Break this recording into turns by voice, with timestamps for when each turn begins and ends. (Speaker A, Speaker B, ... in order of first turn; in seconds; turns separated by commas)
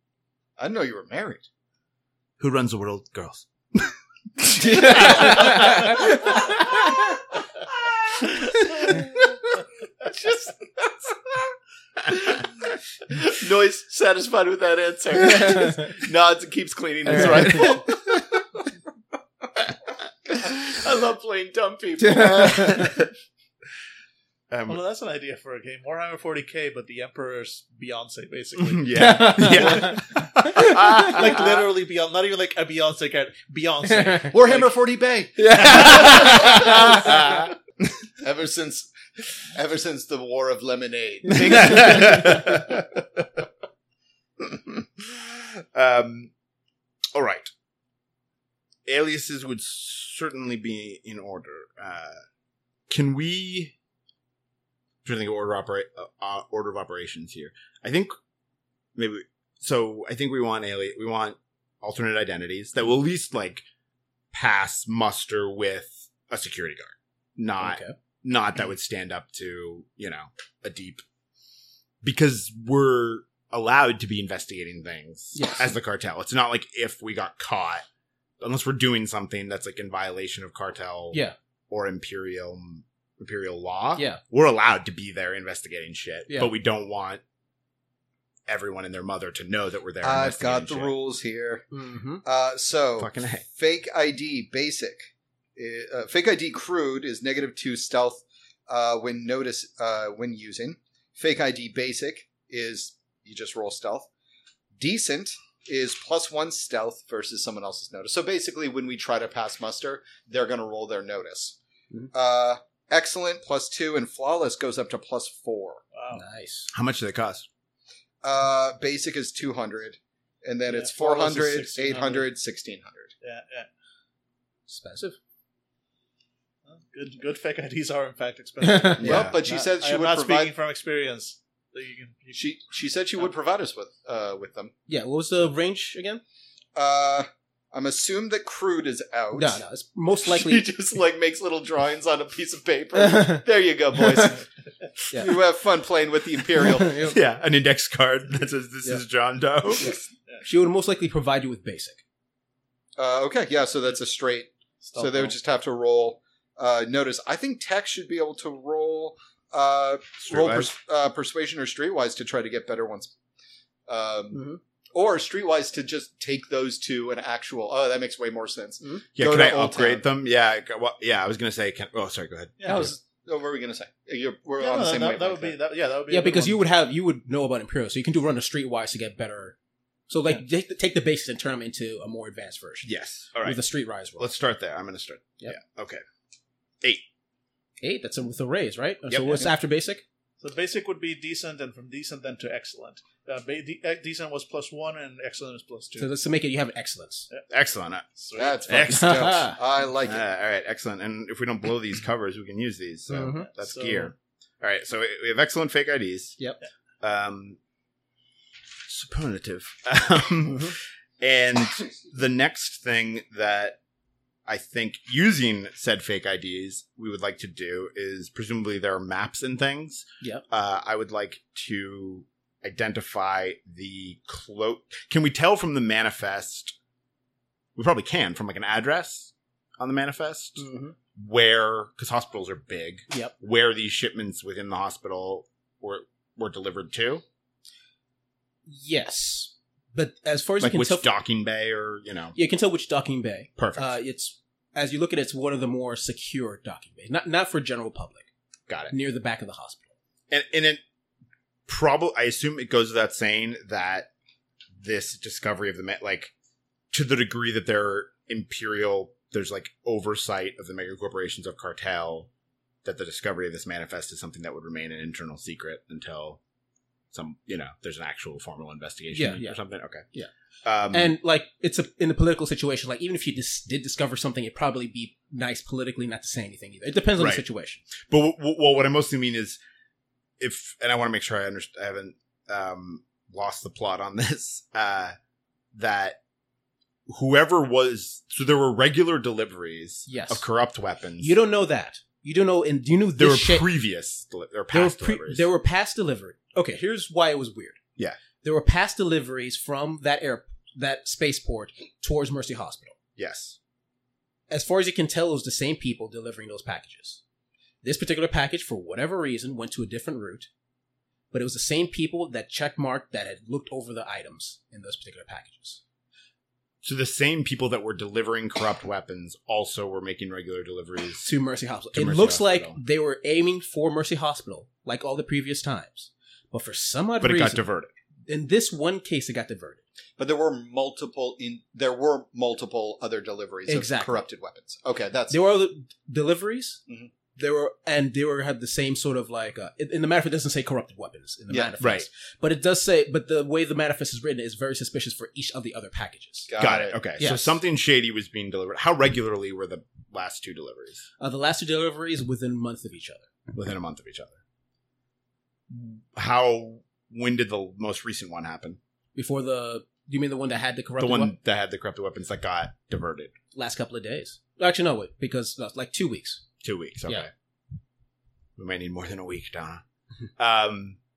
Speaker A: 0.6-1.4, Speaker B: 2.4-6.6, Speaker C: 4.6-6.0, Speaker A: 4.7-5.3, Speaker A: 10.0-11.1, Speaker A: 12.1-12.4, Speaker A: 13.1-18.2, Speaker B: 17.1-17.7, Speaker C: 17.2-17.8, Speaker A: 20.4-22.7, Speaker B: 22.1-23.1, Speaker C: 22.2-22.9, Speaker B: 24.5-24.8, Speaker D: 24.7-30.0, Speaker B: 28.6-31.5, Speaker C: 28.9-31.2, Speaker D: 30.6-34.8, Speaker C: 33.9-34.3, Speaker A: 34.3-37.2, Speaker B: 35.4-37.5, Speaker D: 36.2-36.6, Speaker A: 38.2-38.9, Speaker A: 39.4-42.6, Speaker B: 41.3-43.0, Speaker B: 44.4-46.3, Speaker B: 47.1-47.5, Speaker B: 48.9-52.2, Speaker B: 52.9-53.7, Speaker B: 55.0-58.1, Speaker B: 59.0-63.6, Speaker B: 64.3-71.0, Speaker C: 67.6-67.9, Speaker B: 72.0-77.8, Speaker C: 75.3-75.7, Speaker B: 78.4-87.2, Speaker C: 86.3-86.5, Speaker B: 88.5-90.9, Speaker A: 90.0-91.7, Speaker C: 91.7-92.2, Speaker A: 92.2-104.1, Speaker B: 93.0-93.4, Speaker A: 104.8-111.6, Speaker A: 112.1-115.8, Speaker D: 115.9-116.2, Speaker C: 116.1-116.7, Speaker B: 116.7-117.5, Speaker A: 118.2-123.1, Speaker D: 120.7-122.3, Speaker D: 123.2-123.7, Speaker C: 124.7-125.2, Speaker D: 126.7-132.5, Speaker C: 128.6-129.3, Speaker B: 129.0-129.4, Speaker A: 129.0-130.5, Speaker A: 132.3-134.7, Speaker C: 134.9-136.2, Speaker A: 136.7-139.6, Speaker C: 139.3-140.7, Speaker A: 140.2-144.4, Speaker C: 142.9-143.4, Speaker C: 145.1-145.4, Speaker A: 145.1-147.1, Speaker C: 146.6-147.2, Speaker B: 147.0-150.1, Speaker C: 149.8-152.0, Speaker A: 153.0-163.1, Speaker D: 154.8-155.3, Speaker B: 160.2-160.7, Speaker A: 163.9-170.0, Speaker C: 164.3-164.6, Speaker B: 169.2-172.9, Speaker D: 172.6-172.9, Speaker A: 172.7-175.6, Speaker D: 174.6-176.6, Speaker C: 176.1-179.6, Speaker C: 180.1-182.9, Speaker B: 182.8-183.6, Speaker C: 183.4-184.3, Speaker B: 184.2-186.0, Speaker C: 187.8-190.0, Speaker B: 189.1-189.5, Speaker D: 190.4-196.1, Speaker C: 196.0-197.3, Speaker B: 197.5-198.1, Speaker D: 198.2-198.8, Speaker A: 198.4-200.2, Speaker B: 198.6-199.5, Speaker C: 198.9-199.6, Speaker B: 200.0-206.4, Speaker C: 203.1-203.5, Speaker D: 203.3-204.1, Speaker B: 207.0-207.6, Speaker B: 208.9-213.8, Speaker C: 210.5-210.7, Speaker B: 214.5-226.7, Speaker B: 227.8-237.2, Speaker C: 230.6-230.9, Speaker C: 238.7-241.1, Speaker B: 240.6-242.4, Speaker C: 242.3-248.3, Speaker B: 243.6-243.9, Speaker B: 248.7-248.9, Speaker C: 248.9-249.9, Speaker B: 250.3-250.8, Speaker B: 251.7-254.1, Speaker B: 254.8-256.3, Speaker B: 256.9-262.3, Speaker B: 262.8-266.4, Speaker B: 267.1-270.1, Speaker C: 269.1-269.6, Speaker B: 270.6-271.1, Speaker C: 270.9-277.8, Speaker B: 277.2-277.4, Speaker B: 278.0-279.6, Speaker B: 280.4-285.1, Speaker B: 285.7-286.2, Speaker B: 287.1-291.4, Speaker C: 290.1-290.4, Speaker C: 291.2-293.7, Speaker B: 293.2-295.5, Speaker C: 294.7-297.8, Speaker C: 298.4-302.9, Speaker B: 303.2-303.6, Speaker C: 304.5-307.2, Speaker C: 307.8-310.5, Speaker C: 311.3-315.8, Speaker B: 316.8-321.3, Speaker C: 321.2-327.6, Speaker B: 321.9-322.8, Speaker B: 327.2-327.9, Speaker C: 328.3-329.8, Speaker A: 330.2-335.4, Speaker C: 333.7-334.2, Speaker C: 335.3-336.8, Speaker C: 337.4-346.5, Speaker B: 341.8-342.1, Speaker A: 346.5-347.0, Speaker B: 346.6-351.0, Speaker C: 347.2-347.6, Speaker C: 351.2-353.2, Speaker B: 353.5-354.4, Speaker B: 355.7-358.8, Speaker C: 359.1-361.3, Speaker B: 361.0-363.3, Speaker C: 363.5-366.4, Speaker B: 366.6-367.3, Speaker B: 368.6-369.8, Speaker B: 370.4-371.0